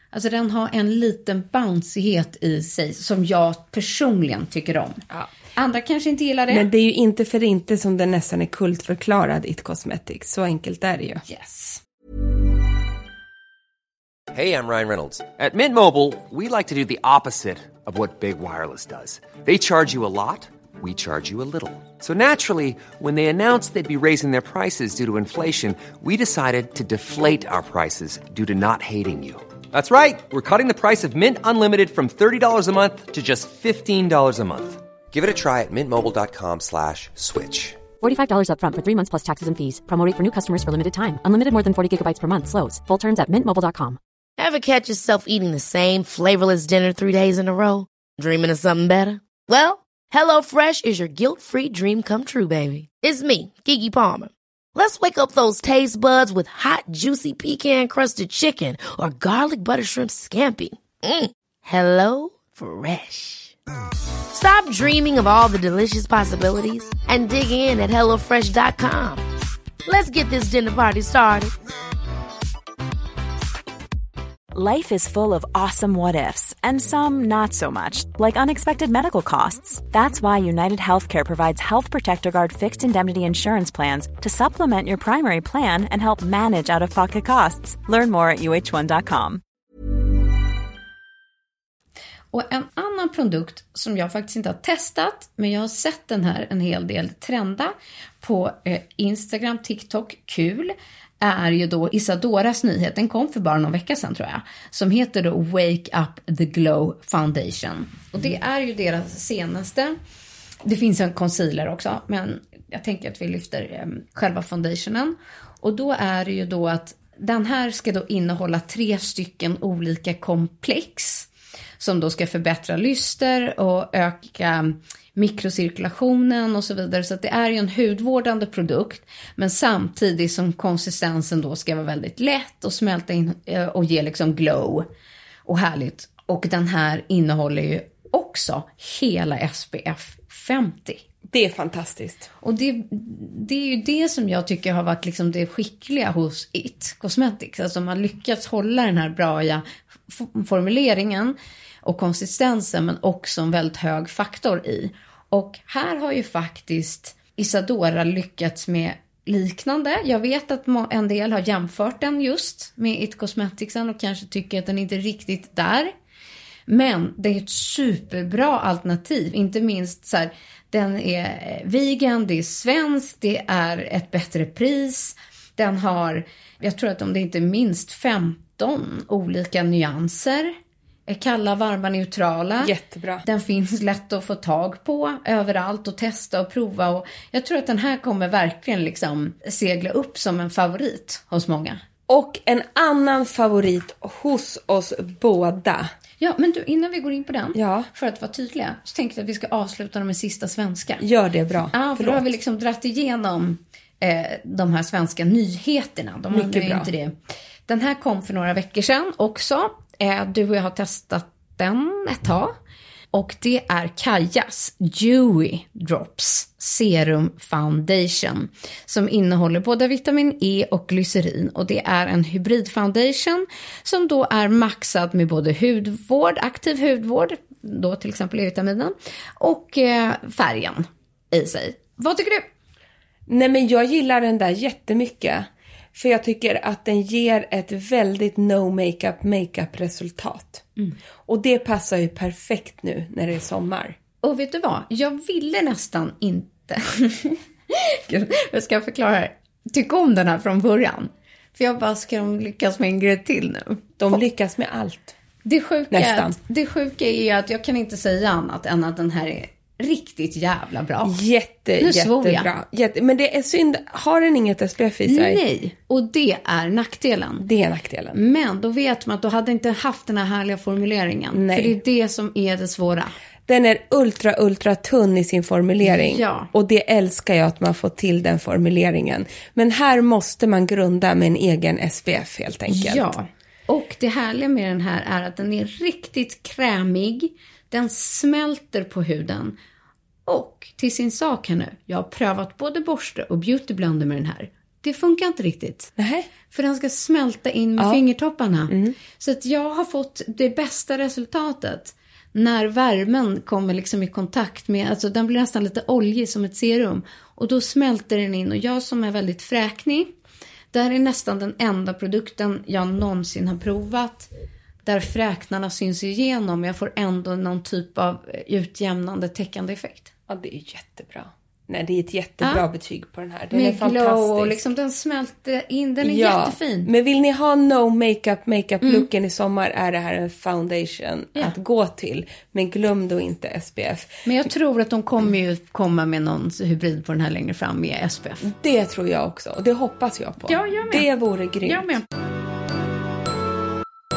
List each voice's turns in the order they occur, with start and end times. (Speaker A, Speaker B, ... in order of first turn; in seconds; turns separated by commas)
Speaker A: 0.1-5.0, Speaker A: 5.6-6.7, Speaker B: 6.5-11.2, Speaker A: 11.2-11.8, Speaker C: 14.3-37.8, Speaker D: 38.0-44.0, Speaker E: 44.4-63.5, Speaker E: 64.3-69.2, Speaker E: 69.9-71.5, Speaker F: 74.5-89.4, Speaker A: 92.3-110.0, Speaker A: 110.7-121.3, Speaker A: 121.8-134.9, Speaker A: 135.5-141.0, Speaker B: 141.3-142.3, Speaker A: 142.4-165.9, Speaker A: 166.7-180.5, Speaker A: 181.1-182.7, Speaker B: 182.6-183.2, Speaker A: 183.2-191.8, Speaker B: 192.1-195.9, Speaker A: 196.2-201.0, Speaker B: 197.6-197.9, Speaker B: 201.0-202.3, Speaker A: 201.7-207.2, Speaker B: 206.3-206.9, Speaker A: 207.7-212.6, Speaker A: 213.1-232.5, Speaker B: 233.3-240.7, Speaker B: 241.3-244.0, Speaker A: 244.2-254.2, Speaker B: 254.0-255.2, Speaker A: 255.4-261.1, Speaker B: 255.9-256.4, Speaker B: 261.0-265.4, Speaker A: 261.8-262.5, Speaker A: 265.1-267.4, Speaker B: 267.4-268.2, Speaker A: 268.1-273.1, Speaker B: 271.3-271.8, Speaker B: 273.5-283.1, Speaker A: 275.8-276.5, Speaker A: 282.7-289.6, Speaker A: 290.3-295.9, Speaker B: 296.0-296.3, Speaker A: 296.5-310.1, Speaker B: 298.7-299.0, Speaker A: 310.7-314.3, Speaker A: 314.9-320.1, Speaker B: 320.3-324.6, Speaker A: 323.5-326.9, Speaker B: 326.0-334.2, Speaker A: 328.8-329.1, Speaker A: 334.2-338.4, Speaker B: 338.4-341.9, Speaker A: 340.5-341.1, Speaker A: 341.6-342.1